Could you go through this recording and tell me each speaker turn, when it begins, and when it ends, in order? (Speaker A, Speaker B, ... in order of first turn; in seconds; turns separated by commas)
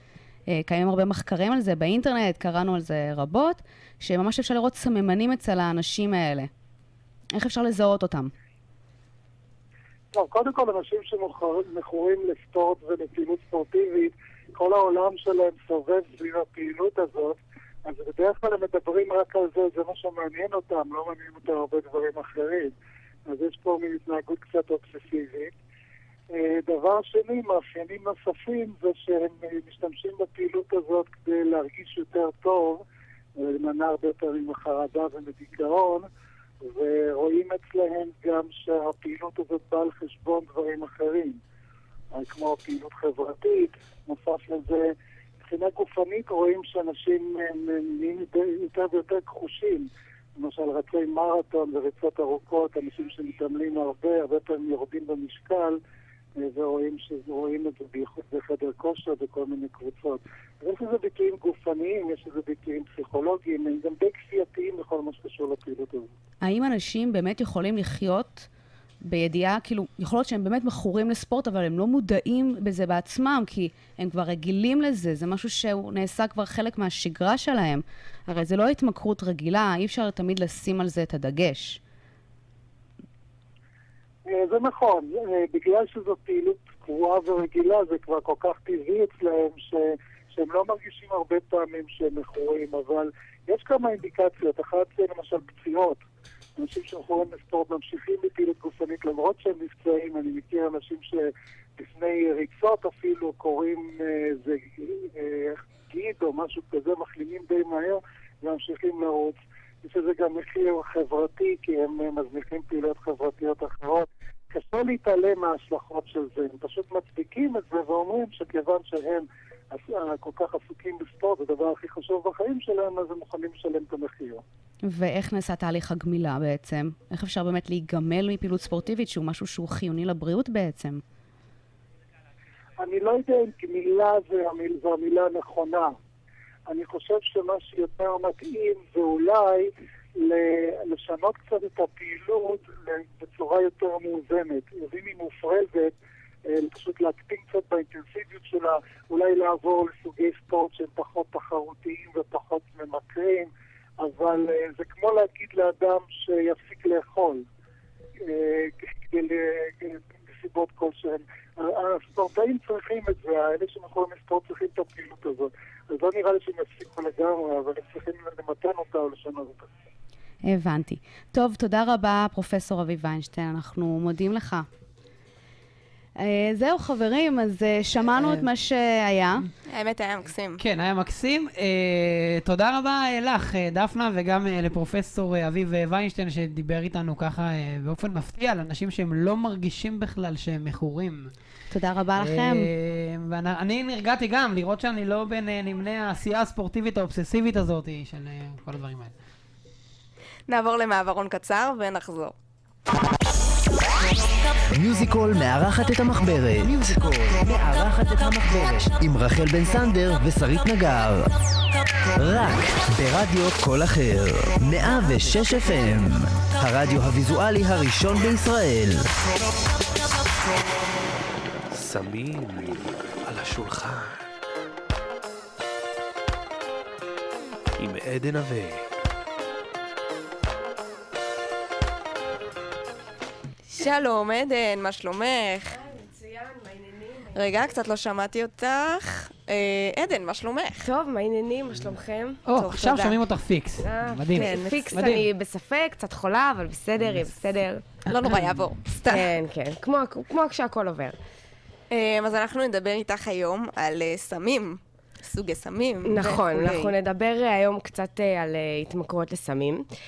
Speaker A: 0.5-6.5, Speaker A: 7.3-8.3, Speaker B: 10.1-22.7, Speaker B: 23.3-25.5, Speaker B: 26.3-32.8, Speaker B: 33.4-36.1, Speaker B: 36.6-41.4, Speaker B: 42.1-55.8, Speaker B: 56.4-66.1, Speaker A: 66.4-68.5, Speaker A: 69.0-81.8, Speaker B: 84.3-96.0, Speaker B: 96.6-124.4, Speaker A: 124.8-131.0, Speaker B: 132.8-135.9, Speaker B: 136.7-139.7, Speaker B: 140.2-145.9, Speaker B: 146.5-157.4, Speaker B: 158.2-169.7, Speaker A: 170.4-174.7, Speaker A: 176.2-179.4, Speaker C: 178.2-178.5, Speaker D: 179.7-180.6, Speaker C: 180.6-191.3, Speaker A: 191.7-192.7, Speaker C: 192.2-199.1, Speaker D: 200.5-202.3, Speaker E: 204.7-211.3, Speaker E: 212.2-219.1, Speaker F: 221.7-224.3, Speaker F: 227.8-228.9, Speaker D: 233.7-235.8, Speaker G: 235.8-237.3, Speaker D: 237.3-240.9, Speaker G: 240.8-242.4, Speaker C: 242.5-245.3, Speaker D: 242.6-243.2, Speaker G: 243.8-247.9, Speaker D: 244.3-245.2, Speaker D: 248.1-249.3, Speaker G: 249.1-251.2, Speaker D: 251.9-256.9, Speaker G: 256.0-259.8